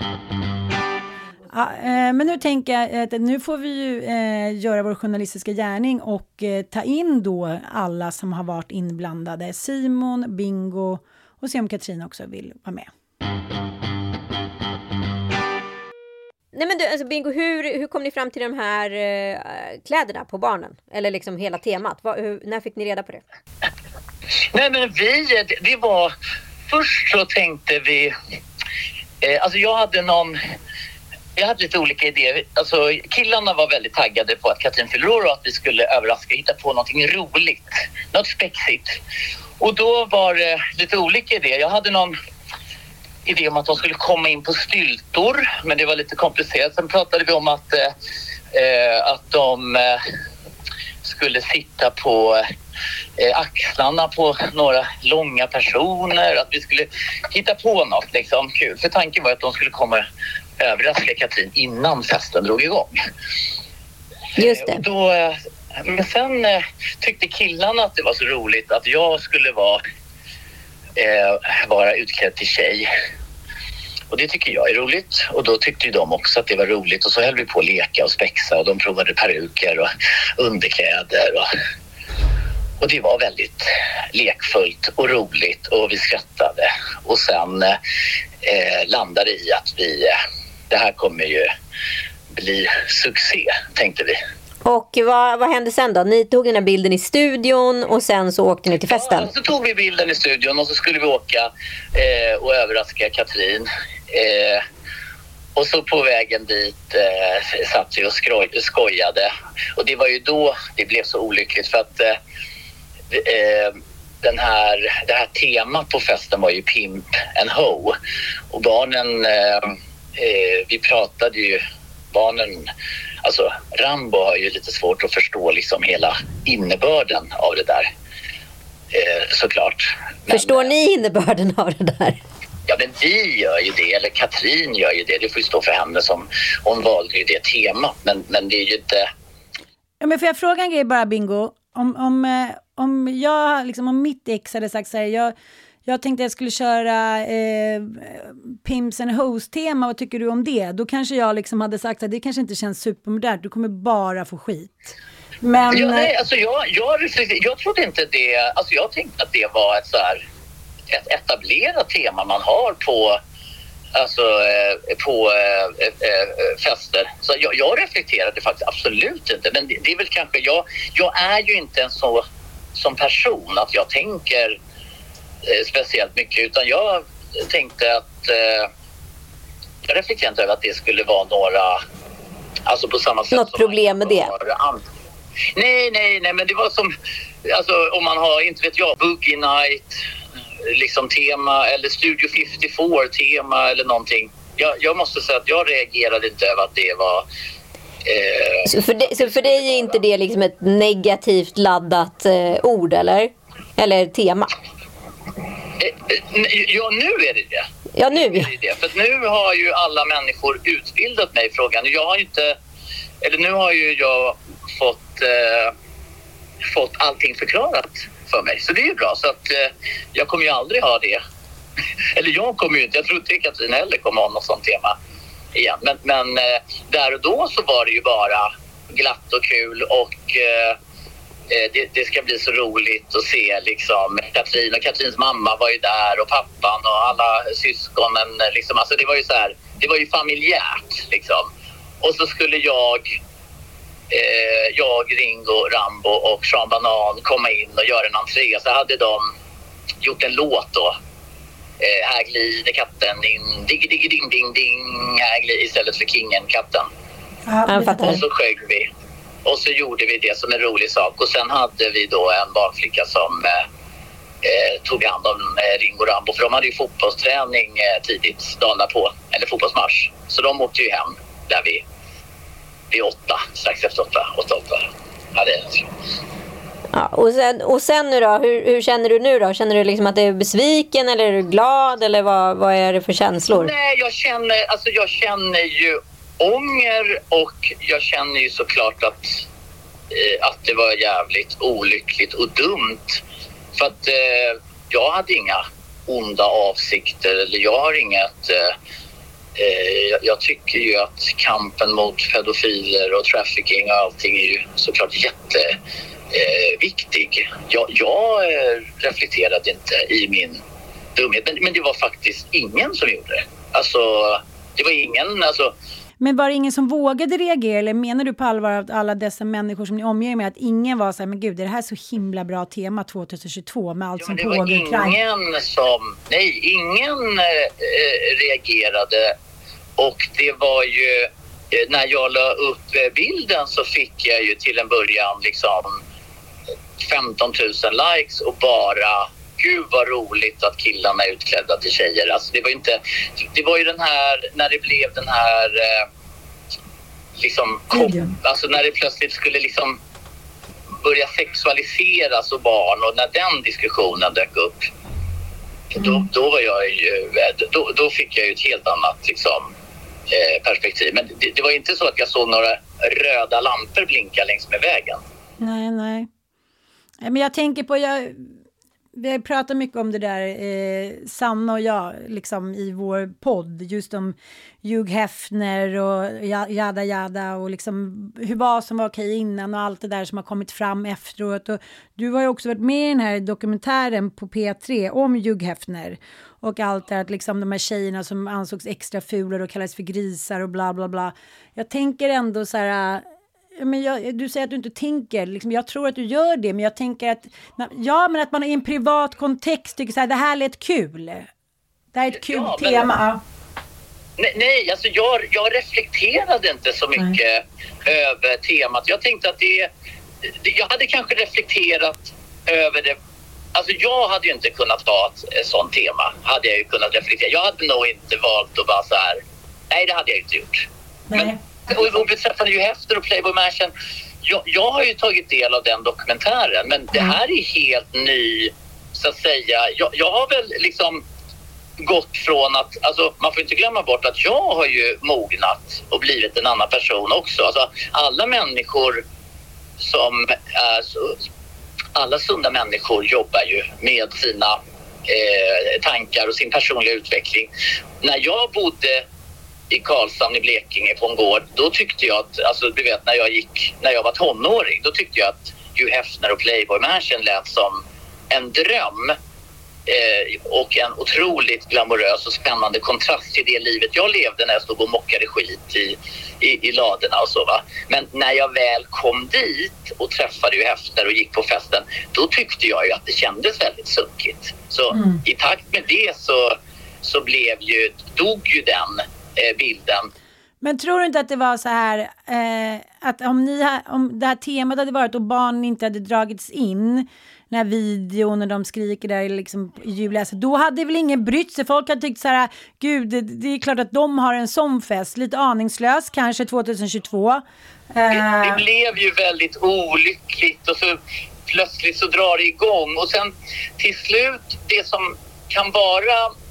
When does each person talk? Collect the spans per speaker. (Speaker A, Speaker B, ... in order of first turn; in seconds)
Speaker A: 1.5-12.9, 140.0-145.3, 145.8-156.1, 257.5-258.2, 316.2-325.2, 347.9-348.3, 365.6-366.3, 367.2-368.5, 369.1-393.2, 393.8-401.5, 402.1-403.4, 421.3-421.6, 475.1-475.4, 480.8-498.8
Speaker B: 16.5-23.2, 64.3-64.8, 94.6-99.3, 130.3-132.2, 183.3-184.3, 198.6-204.5, 207.9-208.5, 257.7-258.2, 276.9-283.7
Speaker C: 24.5-26.1, 26.7-28.1, 29.2-30.4, 31.4-39.0, 39.6-42.1, 43.2-47.9, 48.5-50.0, 51.0-52.5, 53.2-60.0, 60.6-63.0, 64.4-69.8, 71.0-72.9, 74.1-81.5, 82.8-87.8, 88.4-90.2, 90.7-91.5, 92.3-94.2, 98.9-104.6, 105.5-112.2, 113.1-117.9, 118.5-121.6, 122.1-122.7, 123.2-127.9, 128.9-130.7, 132.7-139.1, 155.7-160.2, 160.9-163.2, 163.9-172.2, 172.7-174.6, 175.4-178.7, 179.8-181.8, 182.7-184.8, 185.5-186.9, 187.4-190.0, 190.6-197.2, 198.0-199.8, 205.8-212.6, 213.2-215.7, 216.7-221.2, 222.1-224.9, 225.5-230.8, 231.5-241.5, 242.0-243.2, 244.1-249.3, 250.0-250.9, 251.8-256.9, 258.0-258.9, 259.4-263.6, 264.4-271.8, 272.9-275.9, 283.5-289.4, 290.1-293.2, 293.7-298.7, 299.6-305.8, 306.3-310.6, 311.1-315.7, 324.2-329.3, 330.0-336.0, 337.0-346.1, 347.4-350.0, 351.0-354.9, 355.9-359.7, 360.3-365.2, 402.3-403.1, 404.4-409.9, 410.6-413.1, 413.7-423.9, 424.4-431.2, 432.0-439.2, 440.0-441.4, 442.1-447.7, 448.2-449.2, 449.9-459.4, 460.1-480.3, 498.3-506.5